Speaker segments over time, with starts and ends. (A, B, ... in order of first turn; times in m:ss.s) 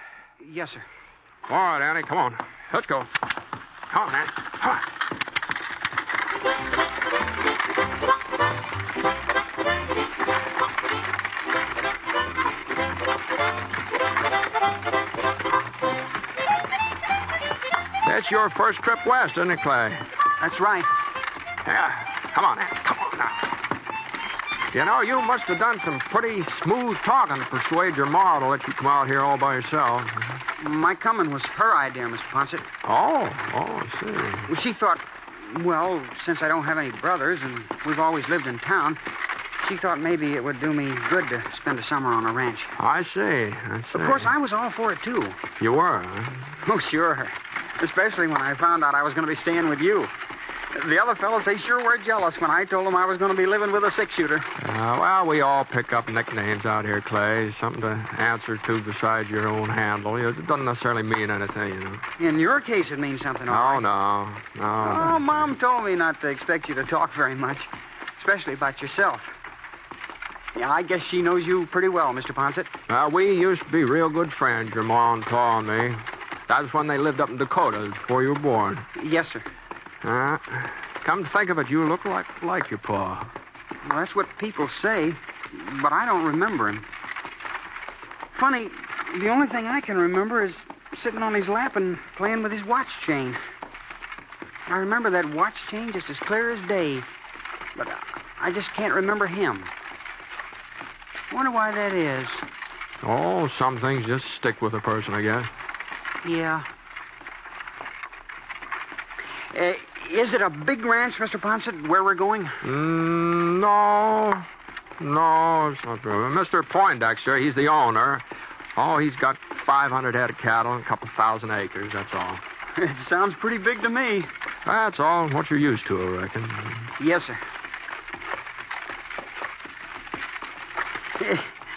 0:00.4-0:00.8 A
0:01.5-0:03.1 B
0:03.9-0:04.9 B
0:18.0-0:20.0 B
0:20.4-0:20.9 A
0:21.6-0:23.4 B
0:24.7-0:30.4 B
0:30.6-0:32.7 A
0:32.8-0:34.5 B
0:34.5-0:39.0 A
0:39.6-0:42.8 A
0:42.8-0:44.3 B
0:43.9-0:45.4 A
0:45.6-0:46.5 B
0:46.6-0:50.1 A
0:50.7-0:54.5 A
0:54.6-1:02.0 B
1:02.2-1:03.8 A
1:03.5-1:05.5 B
1:04.8-1:09.3 A
1:10.5-1:12.7 A
1:12.9-1:18.8 B
1:19.0-1:19.4 A
1:20.0-1:23.3 B
1:23.8-1:26.8 A
1:28.3-1:33.4 A
1:34.7-1:37.1 A
1:37.8-1:39.7 A
1:41.3-1:42.4 A
1:43.0-1:45.5 B
1:46.2-1:46.7 A
1:49.5-1:52.6 A
1:52.6-1:54.4 B
1:55.0-1:58.2 B
1:58.8-2:02.4 B
2:02.8-2:04.3 A
2:04.6-2:06.9 B
2:07.0-2:07.4 A
2:11.2-2:11.5 A